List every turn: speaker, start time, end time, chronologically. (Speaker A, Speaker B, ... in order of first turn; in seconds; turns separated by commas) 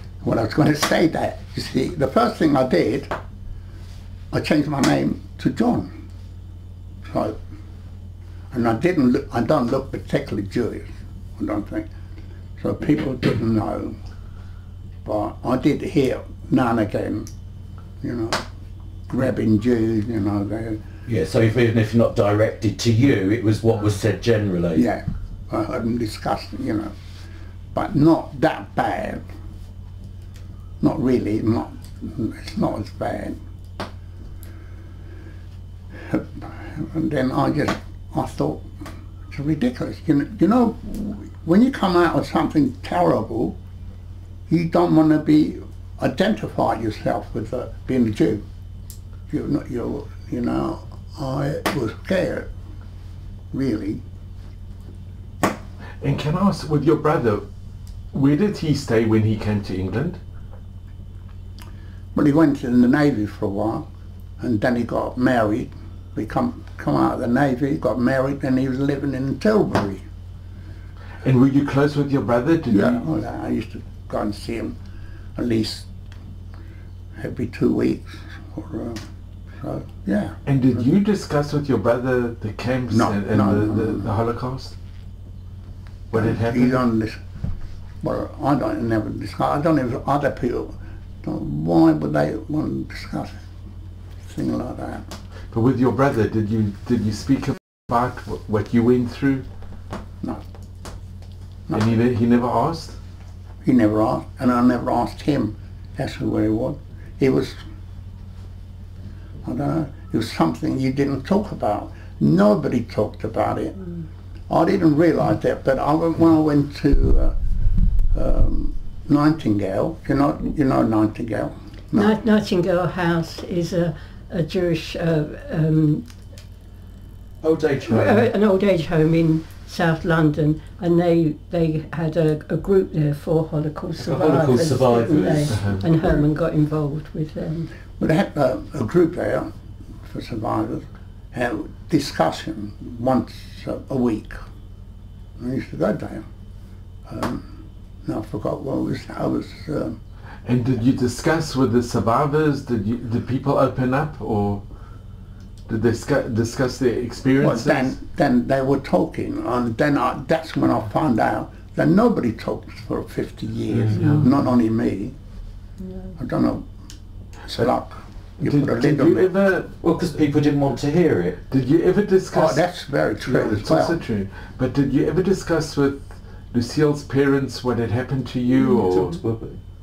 Speaker A: 0.2-3.1, Speaker A: 4.3-5.9, Speaker A: 7.0-7.4, Speaker A: 8.5-11.9, Speaker A: 12.6-14.0, Speaker A: 15.1-17.3, Speaker A: 18.0-18.4, Speaker A: 19.1-20.8, Speaker B: 21.1-24.9, Speaker A: 24.8-26.9, Speaker A: 27.7-29.3, Speaker A: 30.8-33.4, Speaker A: 35.9-38.7, Speaker A: 39.3-43.6, Speaker A: 44.5-48.5, Speaker A: 49.3-52.5, Speaker A: 53.5-54.0, Speaker C: 56.0-57.5, Speaker C: 58.1-60.2, Speaker A: 62.1-63.9, Speaker A: 64.4-70.0, Speaker C: 71.2-73.0, Speaker A: 72.7-74.8, Speaker A: 75.4-75.9, Speaker A: 77.2-79.0, Speaker A: 79.6-80.4, Speaker C: 80.5-84.8, Speaker A: 82.9-84.1, Speaker C: 86.1-86.8, Speaker A: 86.1-87.2, Speaker A: 88.0-93.4, Speaker A: 94.2-95.1, Speaker C: 95.5-99.5, Speaker A: 101.7-102.0, Speaker C: 101.7-103.0, Speaker A: 103.6-107.6, Speaker A: 109.4-113.8, Speaker A: 114.5-117.3, Speaker A: 118.1-122.2, Speaker D: 121.9-126.1, Speaker B: 127.4-128.3, Speaker D: 127.9-137.7, Speaker B: 134.0-136.3, Speaker C: 135.5-135.8, Speaker A: 138.0-139.5, Speaker A: 140.0-144.4, Speaker A: 145.4-146.3, Speaker A: 147.1-147.5, Speaker A: 148.1-150.0, Speaker C: 150.4-154.6, Speaker C: 155.7-158.0, Speaker A: 157.4-165.2, Speaker C: 163.7-164.3, Speaker D: 165.8-166.1, Speaker A: 166.2-166.7, Speaker A: 167.4-169.3, Speaker C: 168.4-169.7, Speaker B: 169.8-171.4, Speaker C: 171.5-172.6, Speaker A: 172.3-174.0, Speaker C: 173.3-179.2, Speaker B: 178.6-179.6